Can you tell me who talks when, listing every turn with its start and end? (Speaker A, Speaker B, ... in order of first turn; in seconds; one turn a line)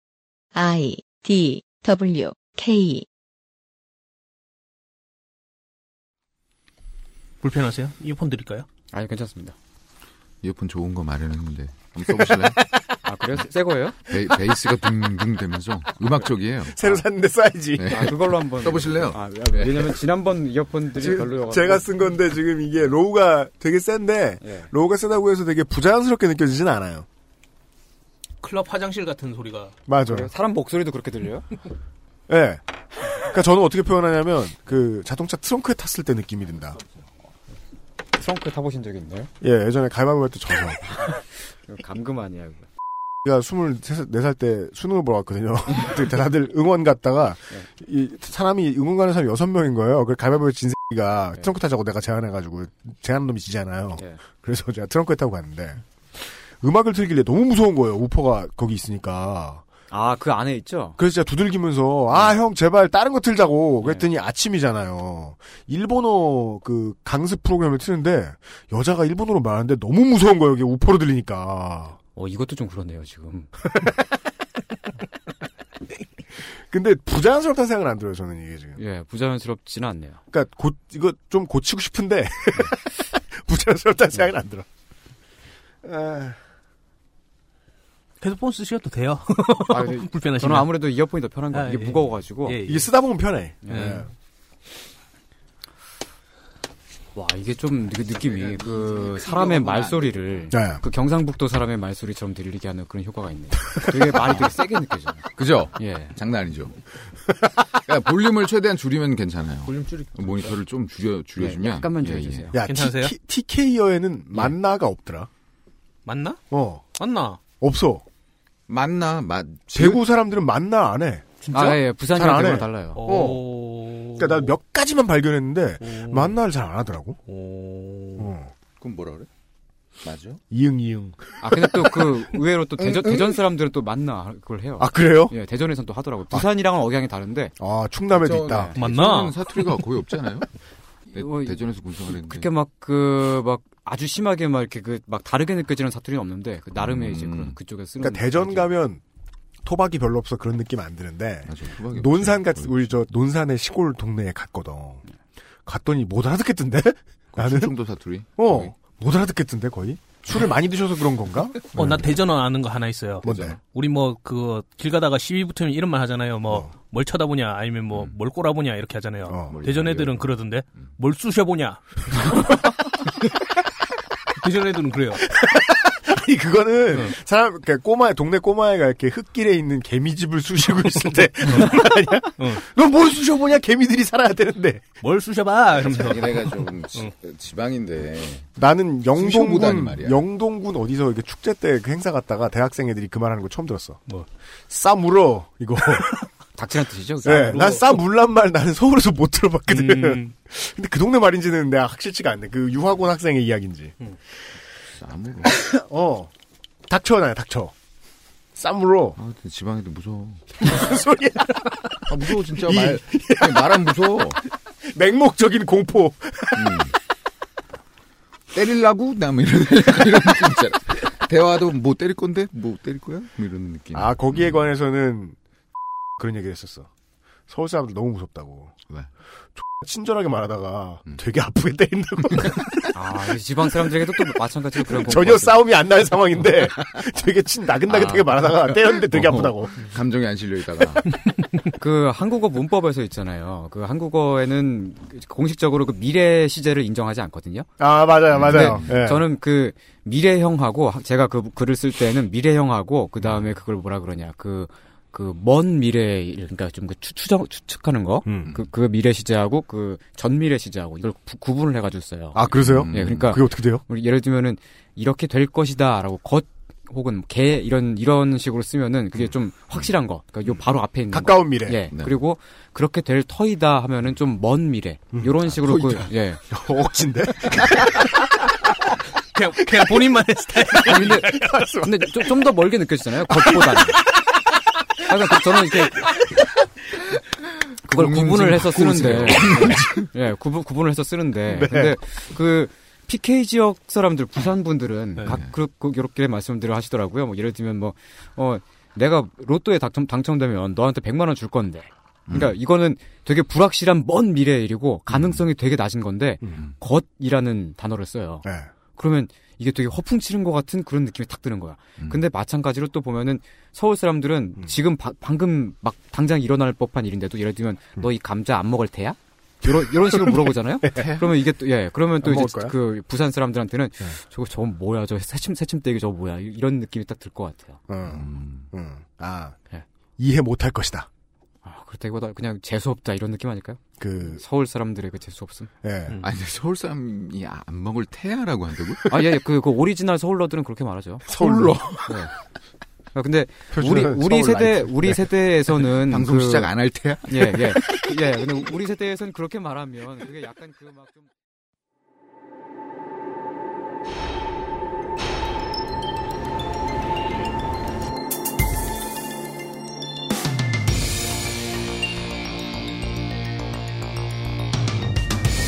Speaker A: 0.5-3.1
Speaker B: 7.4-8.7
Speaker C: 8.9-9.6
Speaker D: 10.4-12.6
Speaker E: 12.2-12.6
Speaker C: 13.0-14.0
Speaker D: 14.1-17.0
Speaker E: 16.6-18.1
Speaker D: 17.8-19.9
Speaker C: 17.9-21.9
Speaker E: 21.0-27.1
Speaker C: 24.4-24.7
Speaker B: 28.4-29.8
Speaker E: 29.9-30.3
Speaker C: 30.1-31.5
Speaker E: 32.3-32.6
Speaker E: 33.1-36.8
Speaker C: 38.2-39.3
Speaker E: 39.4-40.8
Speaker C: 41.0-42.7
Speaker E: 43.2-59.6
Speaker C: 59.9-61.0
Speaker E: 61.0-72.0
Speaker C: 72.2-73.5
Speaker E: 76.7-78.8
Speaker C: 78.8-80.2
Speaker E: 80.3-84.7
Speaker E: 85.8-86.4
Speaker B: 88.2-90.7
Speaker C: 89.7-92.6
Speaker B: 91.5-92.9
Speaker E: 92.7-94.1
Speaker C: 93.6-94.0
Speaker B: 93.7-94.1
Speaker C: 97.2-106.1
Speaker D: 98.1-100.4
Speaker E: 100.5-100.8
Speaker E: 103.8-104.2
Speaker D: 104.2-104.5
Speaker D: 105.4-106.8
Speaker D: 107.7-112.5
Speaker B: 109.7-110.5
Speaker C: 111.4-112.6
Speaker E: 112.5-115.3
Speaker B: 112.6-113.1
Speaker B: 116.1-116.4
Speaker E: 116.5-116.8
Speaker B: 117.0-117.4
Speaker E: 117.6-118.0
Speaker D: 118.7-120.0
Speaker E: 119.7-123.4
Speaker C: 121.5-123.0
Speaker B: 123.0-124.5
Speaker E: 124.2-127.2
Speaker B: 125.8-126.3
Speaker B: 127.3-128.3
Speaker E: 128.2-128.5
Speaker D: 128.8-129.3
Speaker D: 130.0-130.4
Speaker E: 130.5-131.2
Speaker C: 131.4-137.6
Speaker D: 132.8-133.4
Speaker E: 134.8-135.3
Speaker E: 137.6-138.7
Speaker D: 138.1-140.5
Speaker B: 138.8-139.6
Speaker D: 141.1-142.5
Speaker C: 141.2-148.8
Speaker D: 146.8-147.6
Speaker E: 148.0-149.0
Speaker E: 149.6-155.0
Speaker D: 151.5-152.8
Speaker E: 155.7-157.7
Speaker D: 157.4-158.7
Speaker E: 158.4-162.1
Speaker B: 161.7-172.6
Speaker D: 161.8-162.1
Speaker E: 163.2-163.6
Speaker D: 163.2-163.6
Speaker E: 169.3-169.6
Speaker D: 169.5-170.9
Speaker B: 174.4-175.2
Speaker E: 175.2-184.9
Speaker B: 176.9-177.2
Speaker B: 180.8-181.8
Speaker B: 182.4-182.6
Speaker B: 185.0-187.1
Speaker D: 185.7-188.5
Speaker E: 188.6-194.0
Speaker D: 189.2-190.2
Speaker E: 194.7-196.1
Speaker C: 196.6-197.8
Speaker E: 197.2-204.0
Speaker B: 197.4-198.0
Speaker B: 199.7-200.3
Speaker D: 204.9-205.6
Speaker E: 205.5-206.3
Speaker E: 206.9-207.7
Speaker E: 208.6-209.2
Speaker D: 209.2-210.8
Speaker E: 210.6-213.8
Speaker D: 212.1-214.4
Speaker E: 214.8-216.8
Speaker D: 216.6-216.9
Speaker D: 218.5-224.7
Speaker E: 223.9-225.4
Speaker E: 226.2-226.9
Speaker E: 227.5-228.7
Speaker E: 229.6-232.7
Speaker C: 232.9-235.7
Speaker E: 234.8-239.8
Speaker D: 237.9-241.1
Speaker C: 241.8-247.7
Speaker E: 247.8-249.3
Speaker D: 248.3-248.8
Speaker C: 248.4-276.4
Speaker E: 258.2-258.5
Speaker E: 262.3-263.8
Speaker D: 262.5-263.4
Speaker D: 269.2-269.9
Speaker E: 271.1-271.8
Speaker D: 275.4-276.1
Speaker E: 276.5-278.1
Speaker B: 279.4-281.6
Speaker E: 280.7-282.1
Speaker C: 280.8-284.0
Speaker C: 285.0-286.1
Speaker D: 287.9-290.1
Speaker C: 287.9-308.5
Speaker E: 291.5-292.0
Speaker D: 302.3-302.6
Speaker D: 305.1-305.4
Speaker E: 308.4-308.7
Speaker C: 309.0-327.8
Speaker E: 319.6-321.1
Speaker D: 320.9-321.3
Speaker E: 322.2-322.8
Speaker E: 327.9-329.6
Speaker D: 328.0-328.7
Speaker E: 330.2-331.1
Speaker C: 331.6-335.7
Speaker E: 334.0-334.4
Speaker E: 335.8-336.2
Speaker D: 336.2-339.1
Speaker C: 339.1-341.3
Speaker E: 341.3-341.9
Speaker D: 341.3-342.2
Speaker C: 342.1-342.3
Speaker C: 343.1-346.7
Speaker E: 343.7-345.2
Speaker D: 345.9-348.0
Speaker C: 347.2-351.3